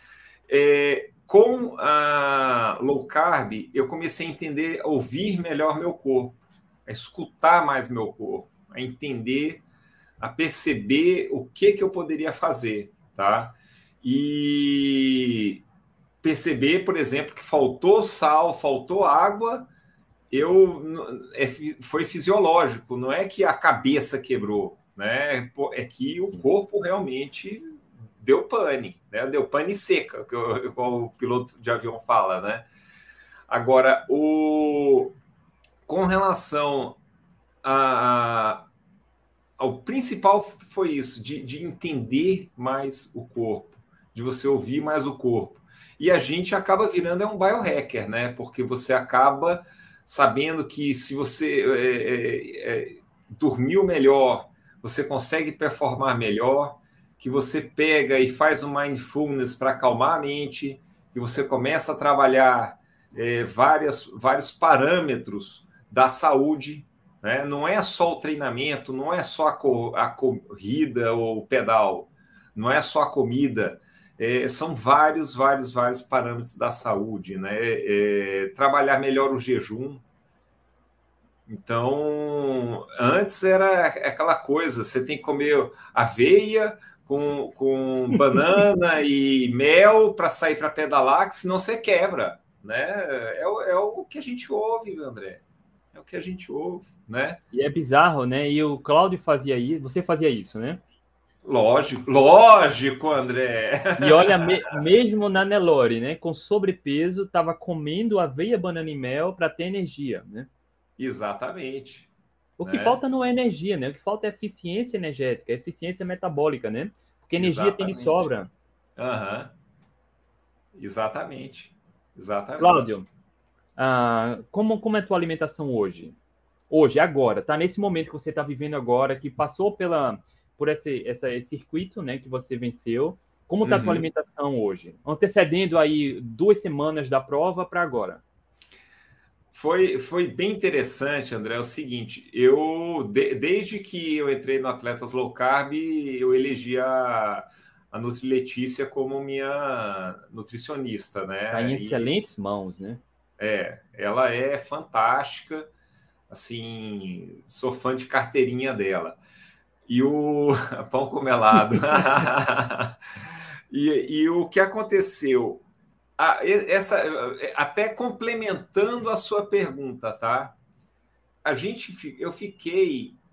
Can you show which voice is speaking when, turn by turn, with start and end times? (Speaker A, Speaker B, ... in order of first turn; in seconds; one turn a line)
Speaker A: 0.5-9.6
Speaker A: 10.2-15.6
Speaker A: 16.2-19.7
Speaker A: 20.3-32.7
Speaker A: 33.5-35.1
Speaker A: 35.9-37.0
Speaker A: 37.6-38.7
Speaker A: 39.6-80.0
Speaker A: 81.5-95.4
Speaker A: 95.9-97.4
Speaker B: 97.5-100.8
Speaker A: 101.4-104.7
Speaker B: 104.0-110.5
Speaker A: 111.0-112.1
Speaker B: 112.6-118.5
Speaker A: 112.6-113.0
Speaker A: 117.4-118.3
Speaker A: 119.0-119.5
Speaker A: 120.7-122.9
Speaker B: 122.6-123.1
Speaker B: 123.8-126.2
Speaker B: 126.7-138.2
Speaker A: 133.6-134.0
Speaker A: 139.5-152.1
Speaker B: 151.5-153.0
Speaker A: 153.4-155.7
Speaker A: 156.3-159.2
Speaker A: 159.9-163.0
Speaker A: 163.7-165.6
Speaker A: 166.2-170.6
Speaker A: 171.4-173.2